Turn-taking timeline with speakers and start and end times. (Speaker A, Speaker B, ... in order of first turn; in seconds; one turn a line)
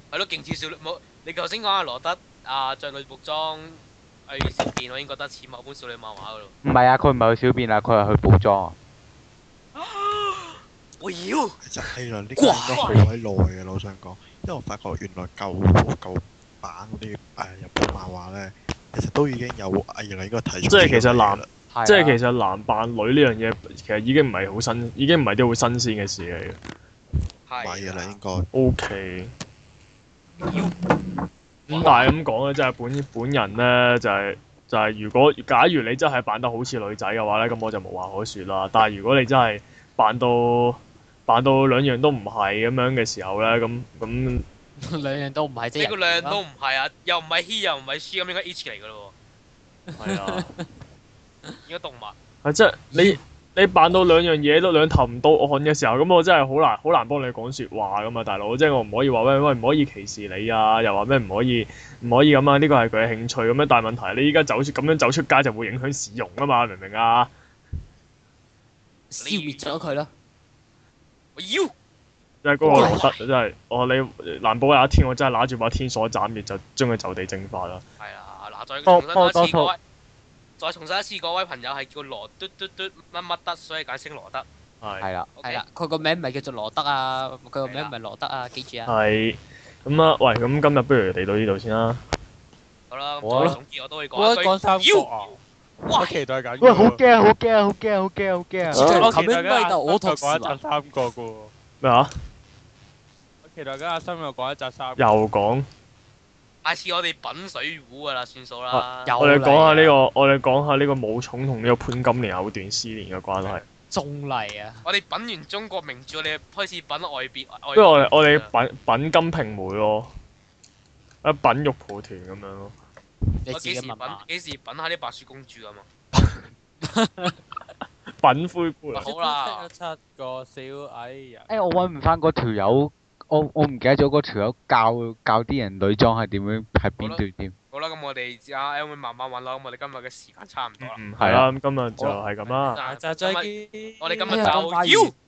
Speaker A: 0.1-6.5
Speaker B: 6.6-8.8
Speaker A: 9.8-11.6
Speaker C: 11.6-21.5
Speaker A: 12.4-13.1
Speaker D: 20.7-26.6
Speaker B: 21.7-22.2
Speaker A: 27.5-28.2
Speaker C: 27.6-28.5
Speaker D: 28.5-29.3
Speaker A: 30.5-30.7
Speaker D: 31.7-44.5
Speaker A: 31.7-32.1
Speaker E: 44.8-46.4
Speaker A: 45.8-49.1
Speaker E: 49.9-50.7
Speaker D: 50.0-50.5
Speaker A: 51.7-52.2
Speaker D: 52.4-67.3
Speaker E: 52.9-53.2
Speaker E: 69.1-70.1
Speaker A: 69.2-69.8
Speaker A: 71.4-71.7
Speaker D: 72.4-77.8
Speaker A: 72.7-73.2
Speaker E: 72.7-73.0
Speaker A: 78.0-79.8
Speaker B: 78.9-79.7
Speaker A: 80.6-84.5
Speaker D: 84.8-85.1
Speaker B: 85.0-85.3
Speaker A: 85.4-85.6
Speaker E: 85.4-88.9
Speaker A: 87.7-87.9
Speaker D: 88.9-92.0
Speaker A: 92.9-96.2
Speaker B: 93.2-93.6
Speaker F: 94.2-95.4
Speaker F: 95.9-97.0
Speaker B: 96.6-99.1
Speaker E: 98.7-100.6
Speaker F: 98.7-101.5
Speaker D: 101.8-102.1
Speaker F: 103.4-105.1
Speaker D: 105.0-105.7
Speaker A: 106.6-109.2
Speaker D: 108.7-113.6
Speaker E: 109.0-110.0
Speaker E: 113.9-114.8
Speaker A: 114.8-118.5
Speaker D: 117.7-120.1
Speaker D: 121.2-122.7
Speaker E: 123.5-124.3
Speaker A: 123.5-125.9
Speaker D: 126.2-126.4
Speaker E: 126.8-127.4
Speaker D: 128.2-129.1
Speaker F: 129.0-131.5
Speaker A: 129.0-129.7
Speaker B: 131.5-137.5
Speaker A: 137.7-141.0
Speaker D: 140.8-142.8
Speaker B: 141.2-141.5
Speaker A: 142.5-145.1
Speaker F: 142.8-144.8
Speaker E: 144.3-145.1